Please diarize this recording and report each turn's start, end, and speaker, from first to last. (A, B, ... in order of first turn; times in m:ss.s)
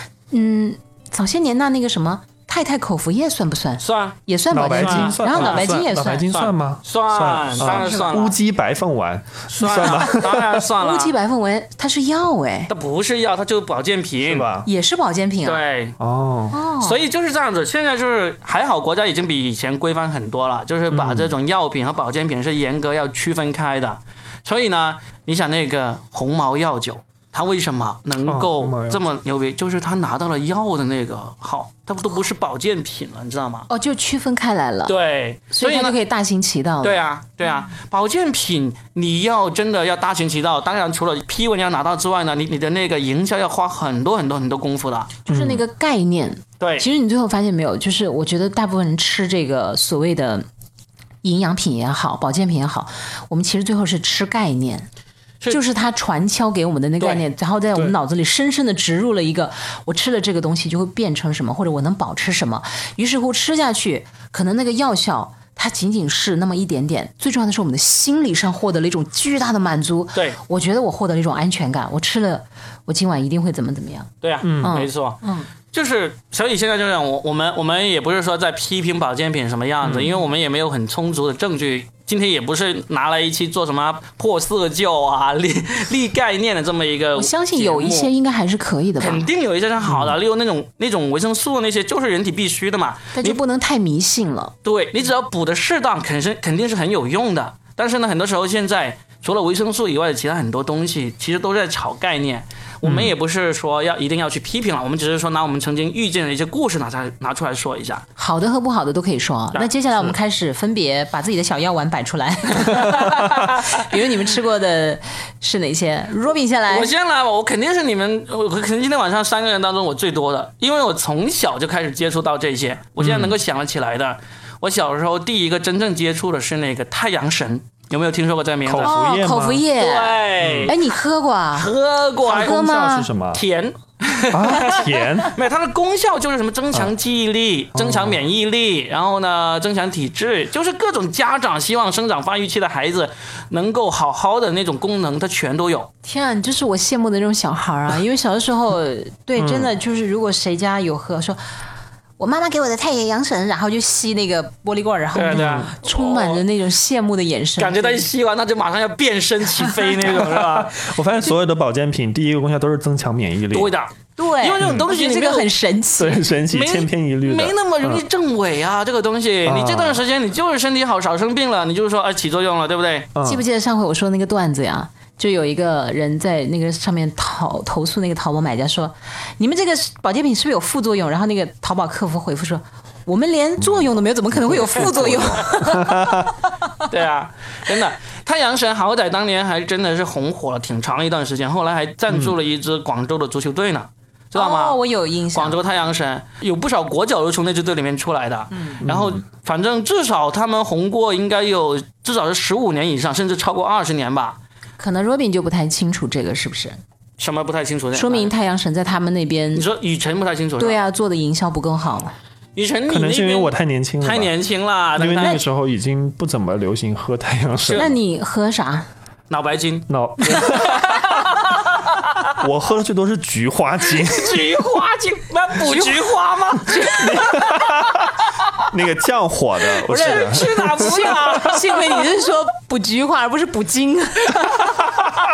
0:00.3-0:06.3 A
0:03.8-0:04.2 B
0:04.5-0:10.7 C
0:04.7-0:05.7 B
0:06.3-0:08.3 B
0:07.6-0:08.2 A
0:09.5-0:11.2 B
0:10.8-0:12.7 A
0:12.7-0:14.5 B
0:14.2-0:14.7 C
0:14.6-0:15.6 A
0:15.4-0:16.0 B
0:16.0-0:16.6 C
0:16.5-0:17.0 A
0:16.8-0:33.7 B
0:20.9-0:21.3 C
0:28.3-0:29.0 C
0:33.7-0:35.0 A
0:34.9-0:36.0 B
0:35.5-0:37.0 A
0:36.8-0:45.1 B
0:45.3-0:50.5 A
0:45.3-0:45.6 C
0:46.6-0:46.9 B
0:51.2-0:54.9 A
0:55.5-1:15.5 A
1:14.2-1:15.2 B
1:14.4-1:14.7 C
1:15.7-1:28.1 B
1:27.2-1:29.3 A
1:29.0-1:33.4 B
1:29.8-1:30.2 C
1:33.2-1:34.5 A
1:34.6-1:48.0 B
1:42.8-1:43.1 C
1:48.2-1:56.9 A
1:52.7-1:53.8 B
1:56.7-2:08.9 B
2:03.0-2:03.4 C
2:08.6-2:09.6 C
2:08.8-2:11.7 A
2:09.8-2:10.8 B
2:10.4-2:10.7 C
2:11.6-2:12.6 B
2:12.3-2:13.1 A
2:12.3-2:13.4 C
2:13.3-2:25.9 B
2:14.3-2:15.4 C
2:17.7-2:18.2 C
2:26.0-2:31.4 A
2:29.4-2:29.7 C
2:32.2-2:38.0 A
2:35.1-2:36.4 B
2:35.3-2:35.7 C
2:37.6-2:40.9 B
2:40.1-2:43.7 C
2:43.5-2:45.5 B
2:44.2-2:46.2 A
2:46.0-2:48.0 C
2:46.5-2:53.1 B
2:49.5-2:50.0 C
2:53.2-2:53.4 C
2:53.2-3:06.4 A
3:04.4-3:06.3 C
3:06.9-3:14.8 B
3:14.4-3:15.6 A
3:15.3-3:24.4 B
3:18.8-3:19.2 C
3:24.8-3:26.8 A
3:27.2-3:28.3 B
3:28.0-3:29.7 A
3:29.5-3:30.8 B
3:30.6-3:32.1 A
3:32.6-3:35.4 B
3:32.9-3:34.3 C
3:35.0-3:37.9 C
3:37.6-3:37.9 B
3:37.8-3:38.9 A
3:39.3-3:42.4 B
3:39.9-3:41.0 C
3:42.4-3:44.5 C
3:44.0-3:47.7 B
3:46.7-3:47.3 A
3:47.0-3:48.1 C
3:48.7-3:50.9 C
3:49.8-3:52.1 B
3:50.0-3:54.9 A